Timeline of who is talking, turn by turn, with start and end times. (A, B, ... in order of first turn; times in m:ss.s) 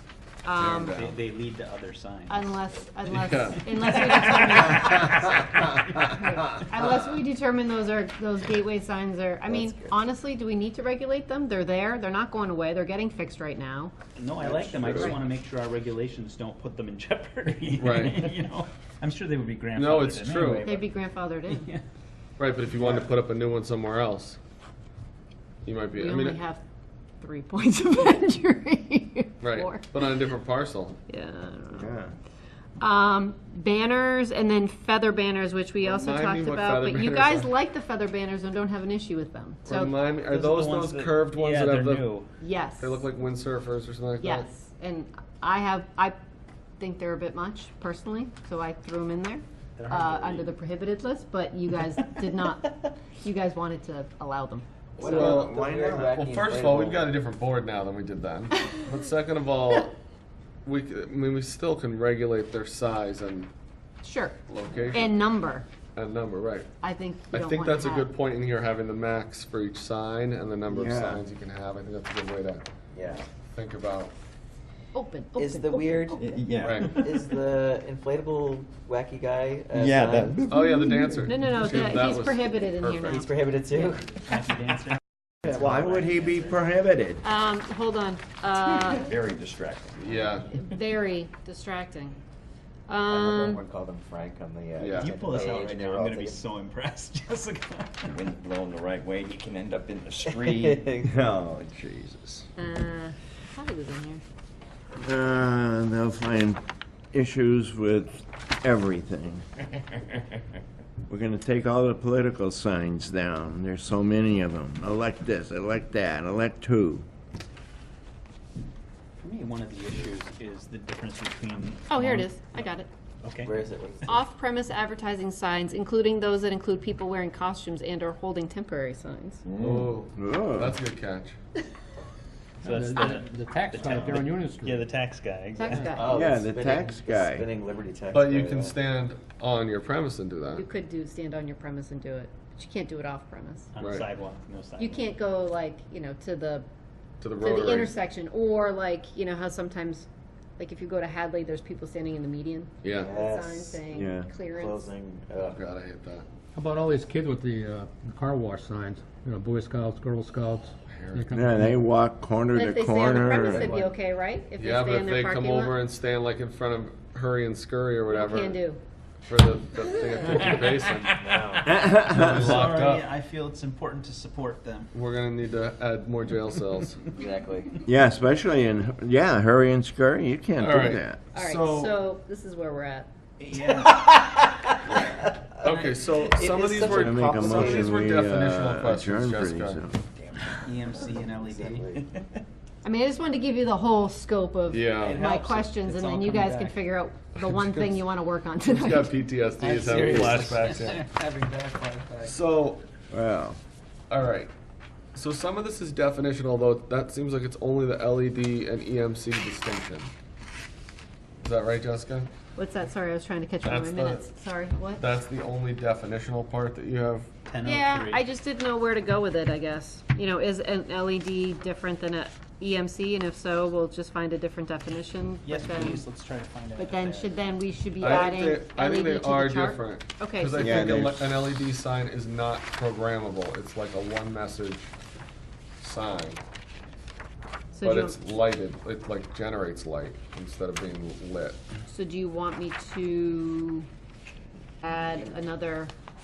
0:00.4-0:01.0 A
0:00.6-0:01.2 B
0:00.9-0:02.6 C
0:02.3-0:13.9 A
0:03.1-0:04.9 B
0:04.0-0:05.0 C
0:09.5-0:09.9 D
0:14.2-0:20.9 C
0:17.8-0:18.3 B
0:19.7-0:20.7 B
0:20.6-0:21.7 A
0:21.5-0:21.8 C
0:22.4-0:24.4 B
0:25.6-0:26.4 B
0:26.0-0:26.6 A
0:27.2-0:30.1 A
0:29.4-0:31.0 B
0:31.1-0:31.9 A
0:31.7-0:32.1 E
0:32.8-0:39.9 A
0:35.8-0:37.5 B
0:39.6-0:42.1 B
0:40.3-0:42.3 C
0:42.4-0:43.0 A
0:42.8-0:44.5 B
0:44.2-0:46.2 A
0:46.8-0:54.6 A
0:49.8-0:50.5 C
0:55.0-0:57.2 D
0:55.0-0:59.9 B
0:55.2-0:56.1 E
1:00.6-1:03.5 B
1:04.0-1:05.6 A
1:04.5-1:05.2 B
1:05.9-1:06.7 B
1:06.8-1:08.1 A
1:07.3-1:12.6 B
1:10.7-1:11.2 E
1:12.9-1:13.3 D
1:13.4-1:14.1 B
1:14.9-1:16.3 A
1:15.4-1:20.5 D
1:16.1-1:17.2 F
1:16.6-1:17.0 B
1:19.8-1:21.1 F
1:20.4-1:23.2 B
1:21.2-1:23.3 A
1:23.1-1:24.2 D
1:24.2-1:26.6 C
1:25.4-1:27.2 E
1:27.2-1:29.1 A
1:28.7-1:30.2 F
1:30.0-1:30.5 B
1:30.3-1:32.2 A
1:32.9-1:33.6 A
1:33.1-1:36.4 D
1:34.8-1:35.1 B
1:35.0-1:35.3 F
1:35.0-1:38.2 C
1:35.9-1:36.2 F
1:38.1-1:42.4 F
1:40.2-1:41.1 D
1:42.6-1:44.2 A
1:45.0-1:49.4 E
1:51.1-1:57.0 E
1:59.2-2:02.6 C
2:01.9-2:02.9 A
2:03.2-2:03.6 C
2:03.4-2:04.2 D
2:04.1-2:09.4 A
2:09.6-2:11.4 B
2:10.2-2:10.7 E
2:12.6-2:15.9 C
2:12.6-2:14.8 G
2:15.6-2:16.1 A
2:15.9-2:18.8 D
2:16.0-2:17.4 E
2:18.1-2:20.6 B
2:20.5-2:23.7 A
2:23.7-2:25.1 C
2:23.8-2:24.1 B
2:24.8-2:26.6 A
2:27.2-2:27.9 B
2:27.4-2:30.1 A
2:30.6-2:34.9 A
2:32.8-2:33.2 B
2:32.9-2:33.8 D
2:33.9-2:34.3 E
2:34.5-2:35.6 D
2:35.4-2:36.2 B
2:36.6-2:41.8 G
2:40.9-2:41.3 B
2:41.3-2:43.8 E
2:42.5-2:45.8 A
2:43.6-2:43.9 D
2:44.6-2:48.6 B
2:48.1-2:48.8 A
2:49.2-2:51.2 B
2:49.8-2:50.8 A
2:51.1-2:51.8 D
2:51.6-2:52.7 E
2:52.0-2:53.0 B
2:52.2-2:54.9 C
2:54.9-2:57.1 B
2:57.0-2:57.8 D
2:57.8-3:01.2 E
3:00.6-3:02.0 B
3:01.3-3:03.1 A
3:03.4-3:04.1 C
3:03.7-3:04.2 D
3:04.7-3:05.1 C
3:05.6-3:06.2 C
3:05.6-3:09.8 B
3:06.2-3:08.0 D
3:06.8-3:10.0 E
3:10.2-3:11.0 F
3:10.6-3:12.2 C
3:11.2-3:12.0 D
3:12.8-3:19.2 A
3:14.7-3:15.2 B
3:15.0-3:16.8 C
3:17.4-3:18.0 B
3:18.7-3:21.0 B
3:19.6-3:22.3 C
3:21.4-3:21.7 D
3:22.2-3:22.8 B
3:23.1-3:23.6 E
3:24.1-3:24.5 B
3:25.1-3:30.1 B
3:31.4-3:32.3 B
3:32.6-3:35.1 A
3:33.6-3:34.3 B
3:35.0-3:37.3 B
3:37.5-3:38.2 C
3:37.6-3:46.0 A
3:45.4-3:47.3 C
3:46.8-3:51.0 A
3:48.0-3:54.9 B
3:50.6-3:51.3 E
3:55.8-3:56.4 B
3:57.7-3:58.2 A
3:57.8-4:01.6 B
4:01.9-4:03.9 A
4:04.8-4:05.9 A